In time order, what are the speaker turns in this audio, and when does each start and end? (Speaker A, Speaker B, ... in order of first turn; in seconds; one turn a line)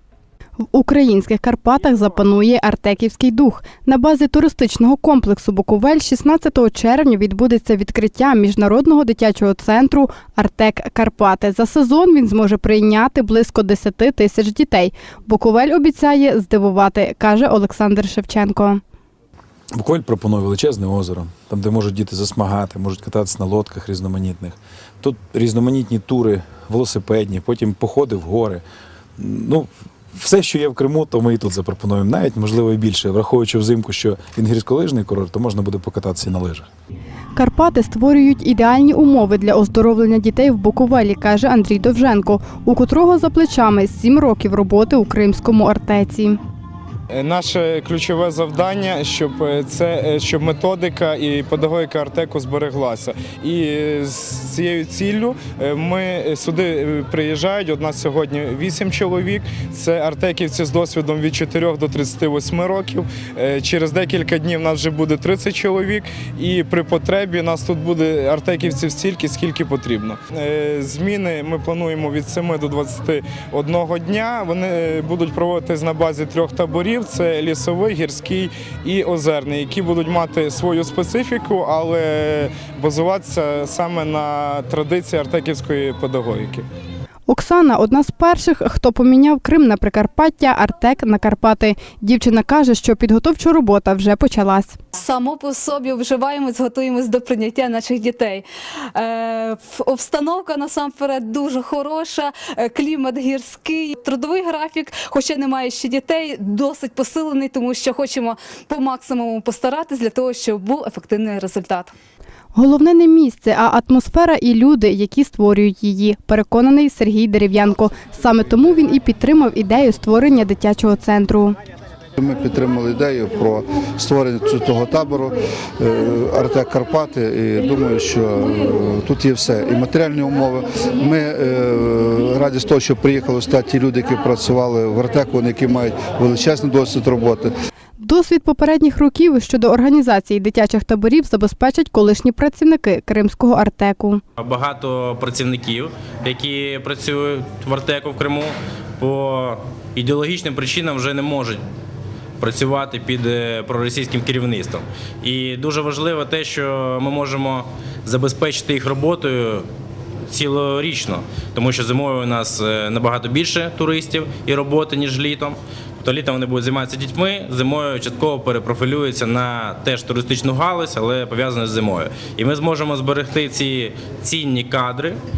Speaker A: 0.7-18.8
Speaker B: 19.7-28.6
Speaker B: 29.2-36.7
Speaker A: 37.3-46.4
Speaker C: 47.1-86.7
Speaker A: 87.3-94.8
Speaker D: 94.9-111.9
Speaker A: 112.5-121.6
Speaker E: 122.2-137.5
Speaker A: 138.0-144.2
Speaker F: 144.4-151.6
Speaker F: 152.4-159.7
Speaker F: 160.3-175.2